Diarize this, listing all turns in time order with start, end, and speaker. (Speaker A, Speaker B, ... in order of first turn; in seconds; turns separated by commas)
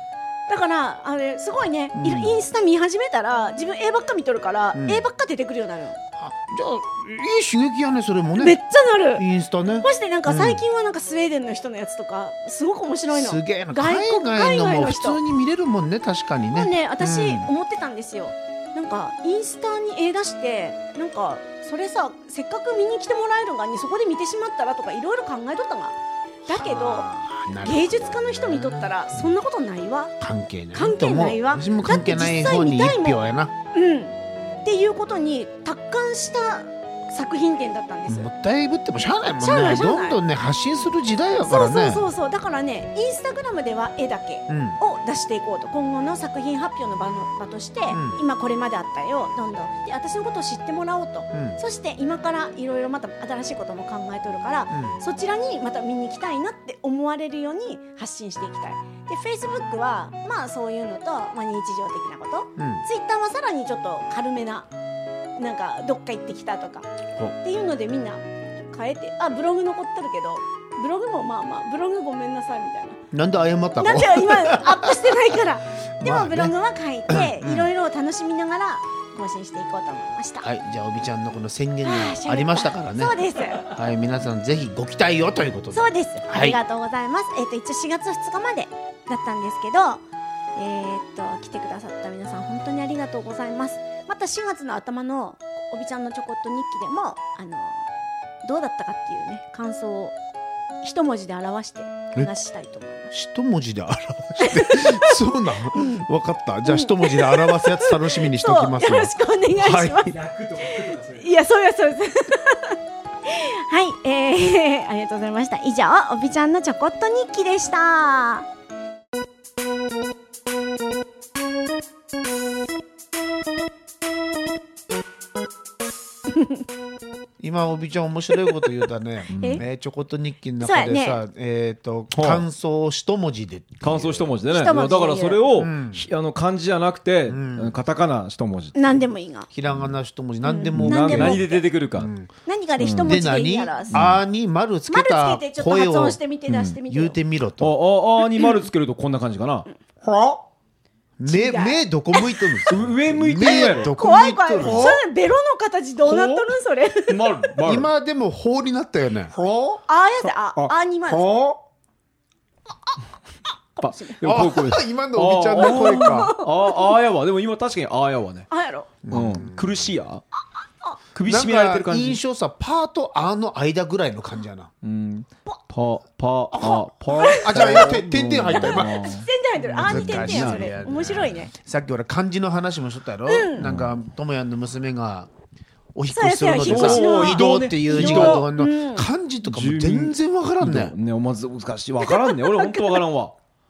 Speaker A: 0.5-6.0, Speaker B: 1.9-2.4, Speaker B: 4.7-5.0, Speaker B: 6.2-8.6, Speaker A: 8.4-9.2, Speaker B: 9.2-10.6, Speaker A: 9.8-15.2, Speaker B: 13.1-17.5, Speaker A: 16.5-30.1, Speaker B: 26.5-29.3, Speaker B: 30.2-33.5, Speaker A: 30.7-33.2, Speaker A: 33.7-38.3, Speaker B: 38.1-42.1, Speaker A: 39.4-40.2, Speaker A: 41.4-64.7, Speaker B: 44.5-44.8, Speaker B: 47.9-48.2, Speaker B: 51.3-51.6, Speaker B: 54.7-55.0, Speaker B: 62.6-62.8, Speaker A: 65.4-66.9, Speaker A: 67.4-73.0, Speaker B: 73.1-75.3, Speaker A: 73.8-80.5, Speaker B: 76.0-76.5, Speaker B: 77.1-77.7, Speaker B: 80.4-86.6, Speaker A: 81.8-83.7, Speaker A: 85.7-90.0, Speaker A: 90.5-97.9, Speaker A: 98.4-100.1, Speaker A: 100.8-103.1, Speaker B: 103.1-110.1, Speaker A: 104.4-105.1, Speaker A: 105.7-106.0, Speaker A: 106.6-110.2, Speaker C: 110.1-111.3, Speaker A: 110.7-118.5, Speaker A: 126.3-126.6, Speaker B: 127.4-134.3, Speaker C: 129.3-129.6, Speaker A: 130.6-131.2, Speaker C: 132.1-132.4, Speaker C: 133.8-139.0, Speaker A: 134.5-135.4, Speaker B: 135.6-136.0, Speaker B: 137.3-137.8, Speaker A: 138.7-139.5, Speaker B: 139.5-141.4, Speaker A: 140.4-141.7, Speaker C: 140.7-142.1, Speaker B: 141.9-142.3, Speaker A: 142.4-144.0, Speaker C: 142.8-143.2, Speaker B: 143.0-146.2, Speaker C: 143.9-144.2, Speaker A: 144.9-147.2, Speaker C: 146.5-146.8, Speaker B: 146.8-147.8, Speaker C: 147.6-150.4, Speaker A: 148.3-148.6, Speaker B: 151.2-155.0, Speaker A: 151.3-152.4, Speaker C: 152.7-153.9, Speaker A: 153.5-157.4, Speaker C: 154.6-155.0, Speaker C: 156.0-156.5, Speaker C: 157.1-157.9, Speaker B: 157.6-159.3, Speaker C: 159.3-159.8, Speaker A: 159.9-161.3, Speaker B: 161.1-161.4, Speaker A: 163.8-164.2, Speaker C: 163.8-168.5, Speaker B: 164.2-166.3, Speaker A: 165.6-166.9, Speaker A: 168.5-168.9, Speaker B: 169.0-169.8, Speaker C: 169.1-170.2, Speaker C: 171.1-172.2, Speaker B: 171.2-174.7, Speaker C: 174.8-180.7, Speaker B: 176.5-185.3, Speaker A: 177.1-177.9, Speaker A: 178.5-181.5, Speaker A: 183.3-183.7, Speaker C: 183.6-184.0, Speaker B: 185.9-190.9, Speaker A: 186.1-189.1, Speaker C: 186.6-188.4, Speaker C: 189.4-193.3, Speaker A: 192.0-193.0